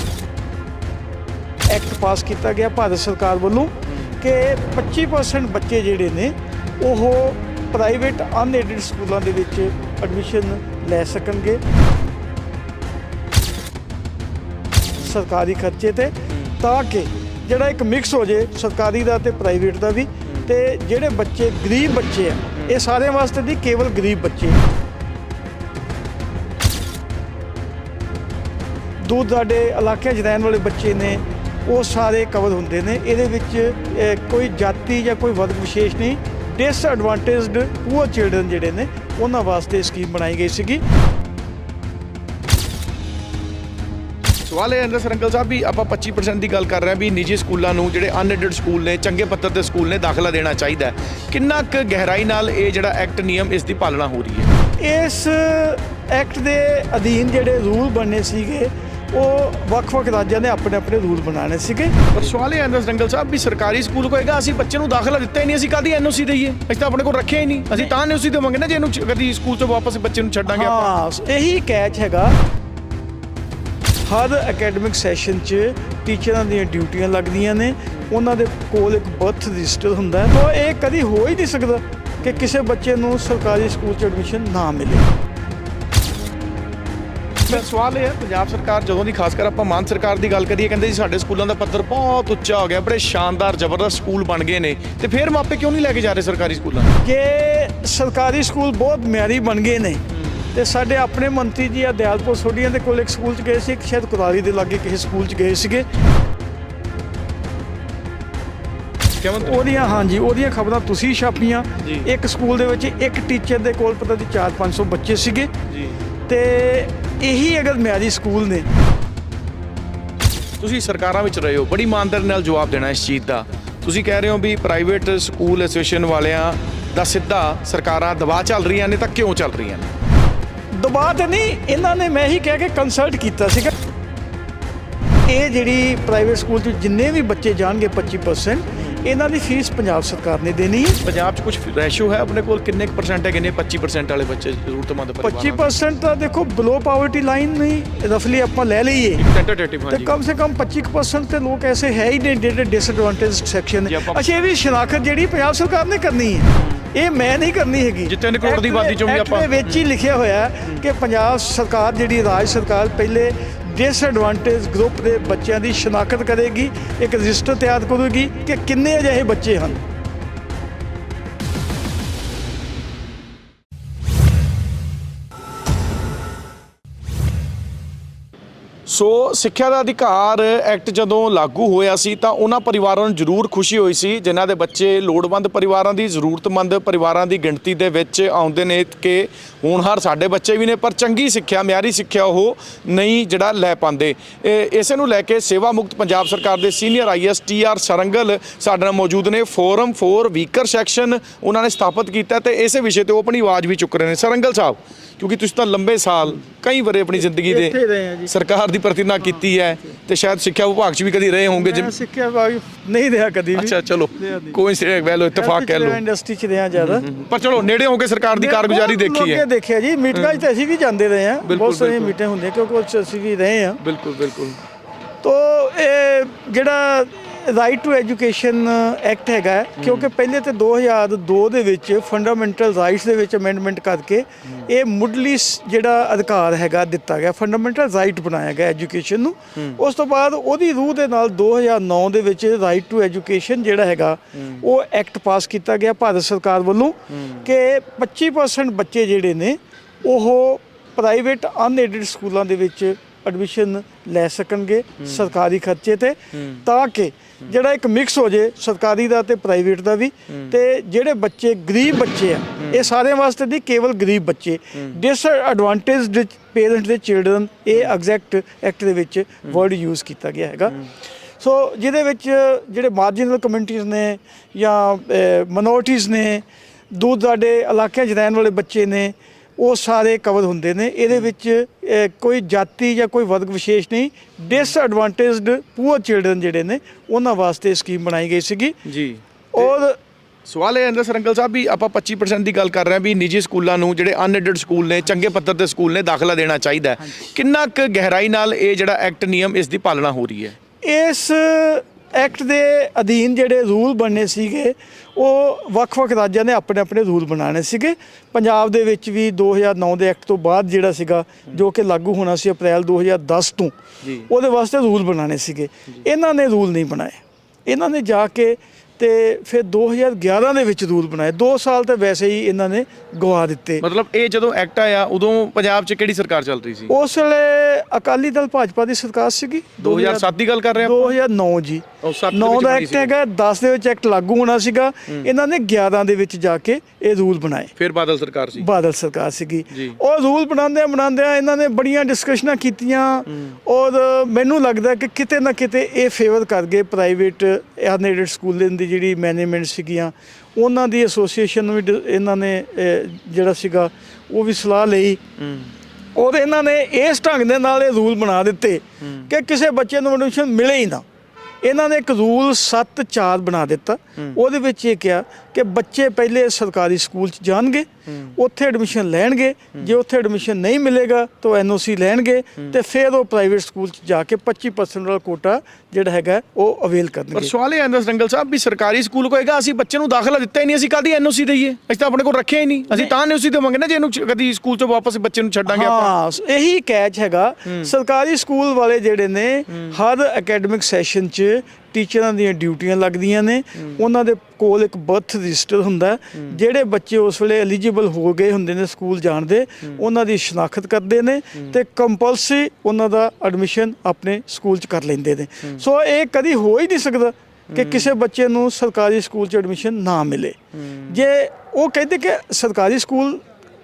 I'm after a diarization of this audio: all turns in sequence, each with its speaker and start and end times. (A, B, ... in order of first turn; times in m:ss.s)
0:01.7-0:11.6 A
0:15.0-0:24.6 A
0:22.6-0:22.8 B
0:29.0-0:40.8 A
0:44.5-0:54.5 B
0:54.8-1:02.0 A
1:02.1-1:10.9 B
1:10.4-1:12.4 A
1:14.0-1:25.0 A
1:22.2-1:22.5 B
1:27.4-1:37.0 B
1:37.0-1:45.9 A
1:49.2-1:49.8 B
1:49.4-1:55.5 A
1:51.8-1:52.1 B
1:55.7-1:55.9 B
1:56.3-1:58.7 A
2:00.6-2:09.9 B
2:10.8-2:13.7 A
2:15.3-2:21.0 A
2:21.0-2:25.7 B
2:25.2-2:29.2 A
2:29.2-2:30.1 B
2:29.9-2:49.8 A
2:33.8-2:34.2 B
2:38.0-2:39.9 B
2:58.8-3:27.8 B
3:27.2-3:28.3 A
3:28.3-3:31.9 B
3:31.6-3:34.6 A
3:33.6-3:36.0 B
3:35.3-3:37.0 A
3:36.8-3:39.4 B
3:38.4-3:43.8 A
3:40.1-3:40.5 B
3:41.4-3:42.2 B
3:43.8-3:44.6 B
3:45.2-4:30.8 A
3:49.8-3:50.1 B
3:59.6-3:59.8 B
4:04.4-4:04.6 B
4:07.1-4:07.5 B
4:15.0-4:15.3 B
4:16.3-4:16.6 B
4:22.6-4:22.9 B
4:31.4-4:48.8 A
4:48.8-4:49.7 B
4:49.5-4:50.0 A
4:50.4-5:00.6 B
5:00.8-5:13.7 A
5:14.0-5:14.3 B
5:14.3-5:23.8 A
5:23.8-5:26.9 B
5:26.9-5:37.7 A
5:29.8-5:31.1 B
5:32.0-5:33.1 B
5:37.8-5:38.7 B
5:38.6-5:55.2 A
5:55.4-5:55.7 B
5:56.2-6:01.0 A
5:59.0-5:59.3 B
6:01.6-6:17.5 A
6:08.1-6:08.3 B
6:17.3-6:26.1 B
6:25.7-6:53.4 A
6:27.6-6:27.9 B
6:29.7-6:30.0 B
6:47.7-6:48.1 B
6:50.7-6:51.2 B